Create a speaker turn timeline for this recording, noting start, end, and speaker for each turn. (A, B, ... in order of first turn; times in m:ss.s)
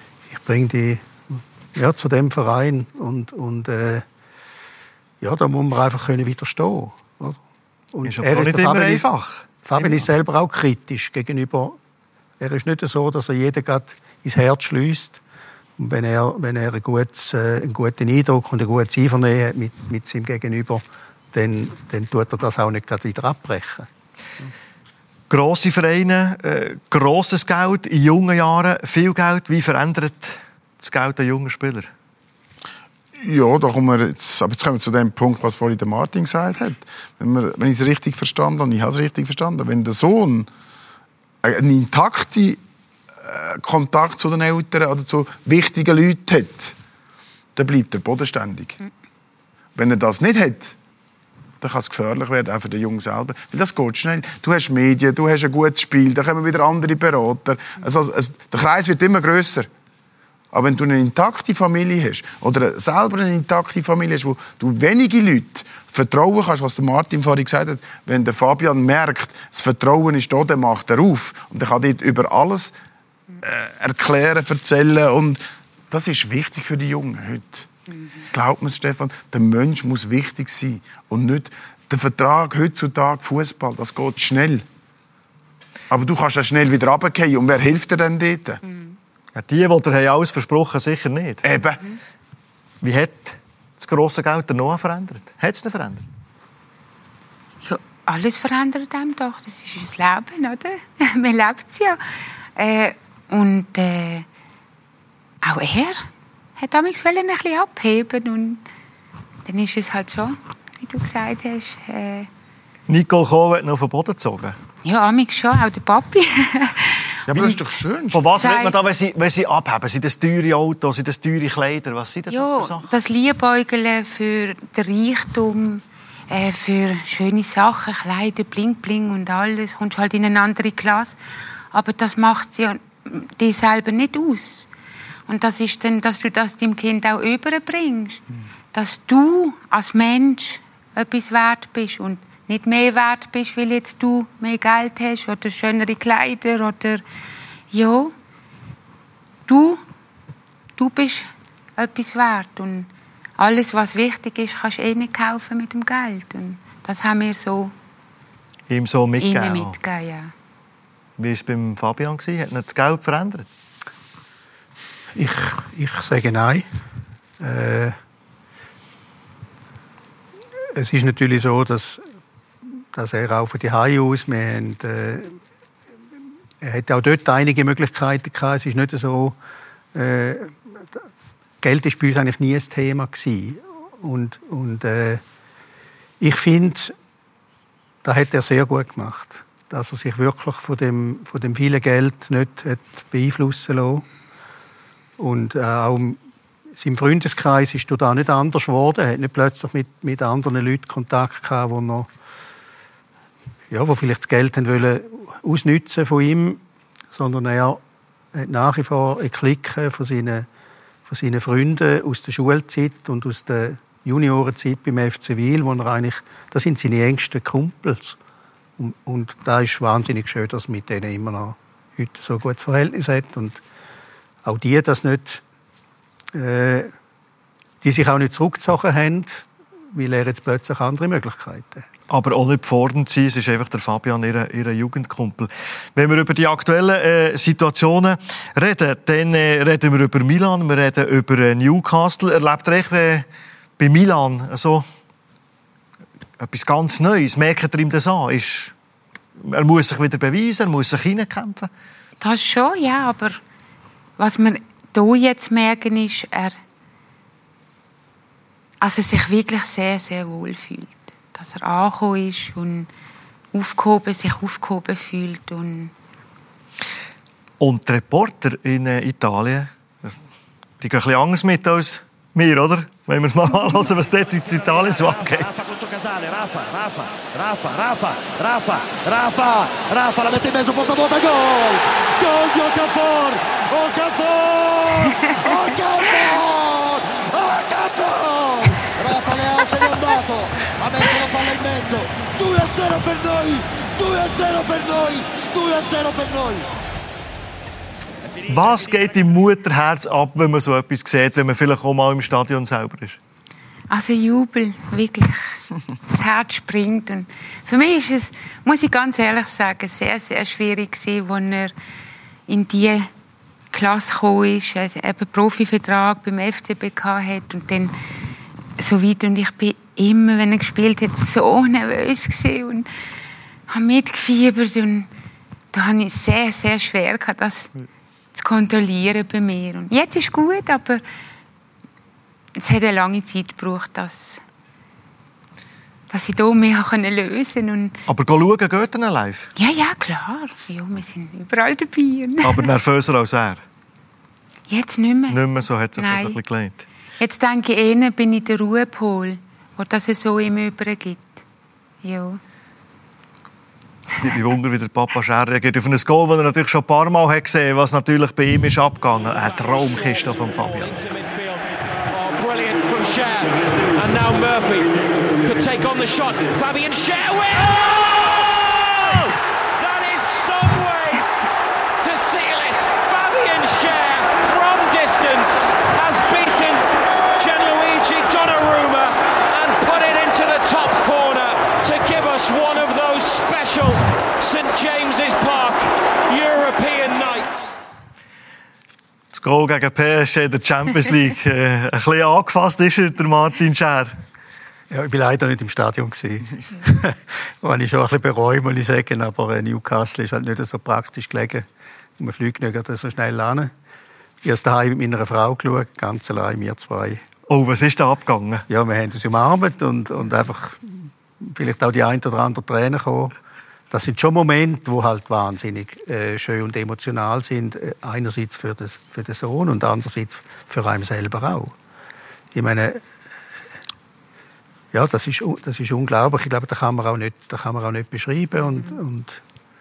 0:00.3-0:04.0 A
0:05.2-0:07.4 A
0:07.9-0:09.0 A
0:08.0-0:10.0 B
0:09.6-0:11.8 A
0:12.4-0:15.2 A
0:15.8-0:23.9 A
0:25.3-0:31.9 B
0:33.2-0:40.5 C
0:41.4-0:42.6 C
0:43.2-0:46.7 C
0:47.6-0:48.8 C
0:49.8-0:50.7 C
0:51.6-0:59.7 C
1:00.5-1:12.7 C
1:13.4-1:17.7 C
1:18.3-1:24.6 C
1:25.9-1:28.6 C
1:28.6-1:29.0 D
1:29.3-1:31.4 B
1:31.4-1:31.8 C
1:32.8-1:36.0 B
1:37.6-1:42.0 D
1:42.6-1:44.2 D
1:45.4-1:46.0 D
1:46.6-1:48.6 D
1:49.4-1:52.3 D
1:52.9-1:54.6 B
1:54.8-1:57.6 D
1:57.3-1:58.3 C
1:58.1-2:02.9 B
1:58.3-1:58.8 D
2:02.3-2:11.2 D
2:11.7-2:14.7 D
2:15.3-2:18.2 D
2:18.7-2:27.0 D
2:27.7-2:28.1 D
2:29.5-2:29.8 D
2:30.8-2:37.7 D
2:38.7-2:39.8 B
2:39.2-2:40.3 D
2:41.2-2:43.5 B
2:45.1-2:46.7 A
2:47.4-2:48.0 A
2:50.7-2:52.0 A
2:52.9-2:55.4 A
2:56.6-2:59.4 A
2:59.9-3:01.0 A
3:01.6-3:05.2 A
3:06.2-3:06.9 A
3:08.0-3:14.0 A
3:15.2-3:16.2 A
3:16.8-3:22.1 A
3:23.7-3:26.6 A
3:27.1-3:27.8 A
3:28.3-3:30.5 A
3:31.1-3:38.2 A
3:38.8-3:43.6 A
3:44.4-3:45.4 A
3:46.3-3:46.9 A
3:47.8-3:51.9 A
3:52.1-4:03.2 B
4:03.8-4:04.8 B
4:06.4-4:08.7 B
4:09.4-4:11.7 B
4:12.2-4:13.4 D
4:14.2-4:16.6 D
4:18.8-4:22.9 D
4:23.5-4:25.9 D
4:27.6-4:30.2 B
4:30.8-4:35.5 B
4:35.5-4:56.8 E
4:58.4-5:03.2 B
5:03.9-5:05.4 D
5:06.1-5:11.7 D
5:12.5-5:13.1 D
5:13.7-5:17.9 D
5:18.8-5:22.9 D
5:23.7-5:25.1 D
5:25.7-5:27.7 D
5:28.4-5:31.0 D
5:32.6-5:34.4 D
5:36.1-5:38.0 D
5:38.1-5:39.5 B
5:39.6-5:42.7 D
5:42.4-5:43.6 B
5:44.7-5:45.4 D
5:45.3-5:46.8 B
5:46.0-5:46.4 D
5:47.2-5:51.4 D
5:52.0-5:52.4 D
5:54.2-6:01.0 B
6:00.8-6:11.2 F
6:12.0-6:27.7 F
6:29.3-6:34.2 B
6:34.9-6:41.6 A
6:42.2-6:43.7 A
6:44.4-6:47.2 A
6:47.5-6:48.6 B
6:48.7-6:53.3 A
6:53.9-7:01.8 A
7:02.5-7:03.0 A
7:04.9-7:09.4 A